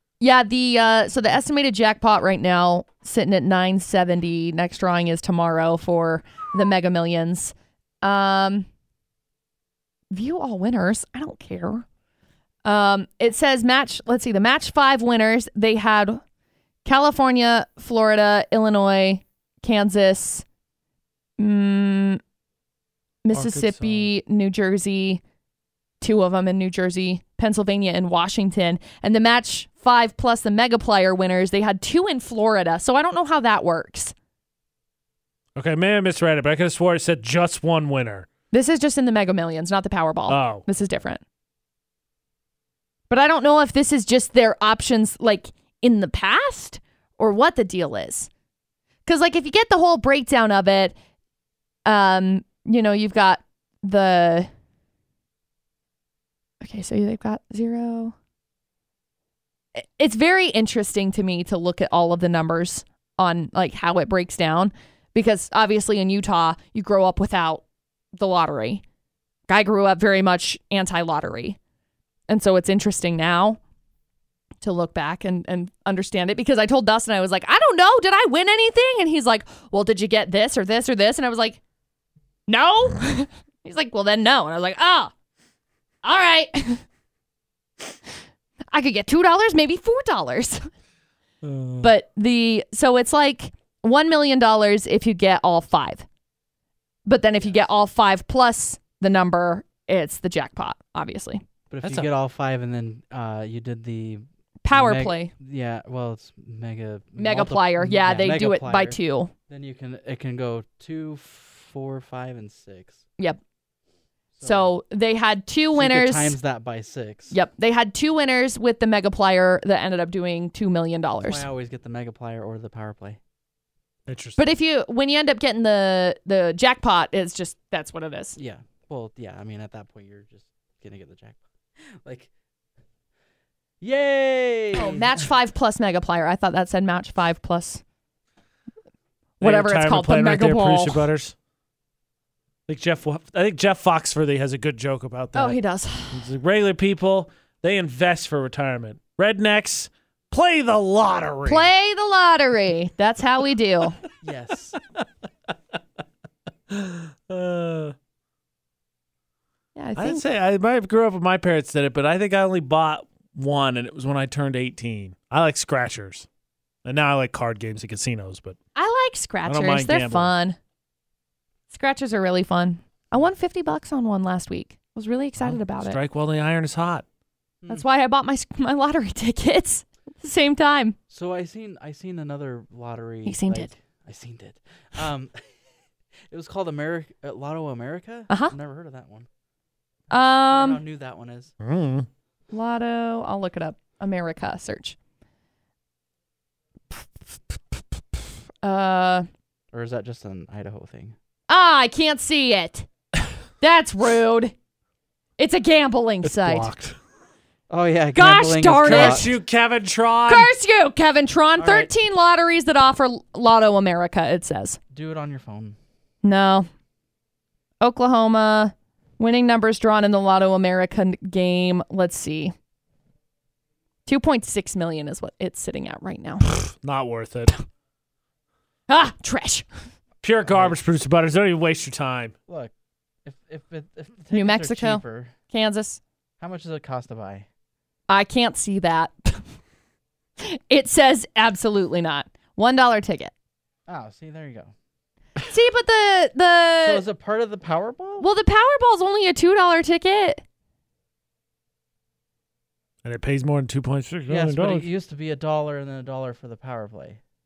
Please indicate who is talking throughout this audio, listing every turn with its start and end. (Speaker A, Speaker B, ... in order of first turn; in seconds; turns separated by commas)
Speaker A: 0.2-8.7, Speaker A: 10.1-11.8, Speaker A: 12.7-16.2, Speaker A: 16.9-20.4, Speaker A: 21.4-22.2, Speaker A: 23.2-25.2, Speaker B: 23.3-24.1, Speaker A: 26.0-34.1, Speaker B: 35.6-38.3, Speaker A: 38.5-41.2, Speaker B: 40.3-40.6, Speaker A: 43.1-48.3, Speaker A: 49.1-50.9, Speaker A: 51.9-54.5, Speaker A: 56.6-58.1, Speaker A: 59.8-67.6, Speaker A: 68.2-68.8, Speaker A: 69.5-71.6, Speaker A: 72.3-73.6, Speaker A: 74.6-81.6, Speaker A: 82.5-85.1, Speaker A: 86.0-86.8, Speaker A: 88.7-90.6, Speaker B: 91.4-91.9, Speaker A: 91.8-96.0, Speaker A: 97.1-101.4, Speaker C: 101.7-113.0, Speaker B: 101.8-102.1, Speaker A: 104.7-105.3, Speaker A: 107.2-109.3, Speaker C: 114.4-114.7, Speaker A: 114.4-116.4, Speaker C: 115.8-117.3, Speaker A: 117.3-121.5, Speaker C: 121.2-123.2, Speaker B: 124.1-124.5, Speaker A: 124.4-128.4, Speaker C: 128.4-132.3, Speaker C: 133.8-135.3, Speaker A: 134.8-137.8, Speaker A: 139.4-141.1, Speaker B: 139.4-141.3, Speaker B: 142.7-145.6, Speaker A: 145.3-146.3, Speaker B: 146.1-151.7, Speaker A: 151.4-154.0, Speaker C: 154.2-154.8, Speaker B: 156.7-157.9, Speaker A: 159.8-160.2, Speaker B: 160.0-166.3, Speaker B: 166.8-168.6, Speaker A: 168.8-170.6, Speaker B: 169.4-170.3, Speaker A: 171.7-176.0, Speaker B: 175.4-177.1, Speaker A: 177.7-181.0, Speaker C: 181.1-185.4, Speaker A: 183.2-183.7, Speaker C: 186.3-189.3, Speaker A: 188.3-188.5, Speaker A: 190.1-190.8, Speaker C: 190.5-191.5, Speaker B: 191.6-192.1, Speaker A: 192.5-194.9, Speaker A: 198.6-199.3, Speaker C: 199.7-201.2, Speaker A: 201.5-202.9, Speaker A: 203.6-204.5, Speaker A: 205.4-206.7, Speaker B: 206.2-207.0, Speaker C: 207.7-209.3, Speaker A: 208.1-209.3, Speaker B: 208.8-210.5, Speaker A: 210.3-214.8, Speaker C: 211.6-211.9, Speaker C: 214.9-215.8, Speaker A: 216.2-216.7, Speaker A: 217.8-222.5, Speaker A: 224.1-226.5, Speaker B: 226.5-227.6, Speaker A: 228.9-229.7, Speaker B: 230.2-232.3, Speaker C: 230.5-230.8, Speaker C: 232.5-232.7, Speaker C: 233.2-235.3, Speaker A: 234.3-236.0, Speaker C: 236.4-237.5, Speaker A: 238.1-239.5, Speaker A: 240.4-243.3, Speaker C: 243.9-244.7, Speaker A: 245.5-247.0, Speaker C: 246.8-248.3, Speaker A: 248.2-250.4, Speaker B: 253.0-254.9, Speaker C: 254.3-257.2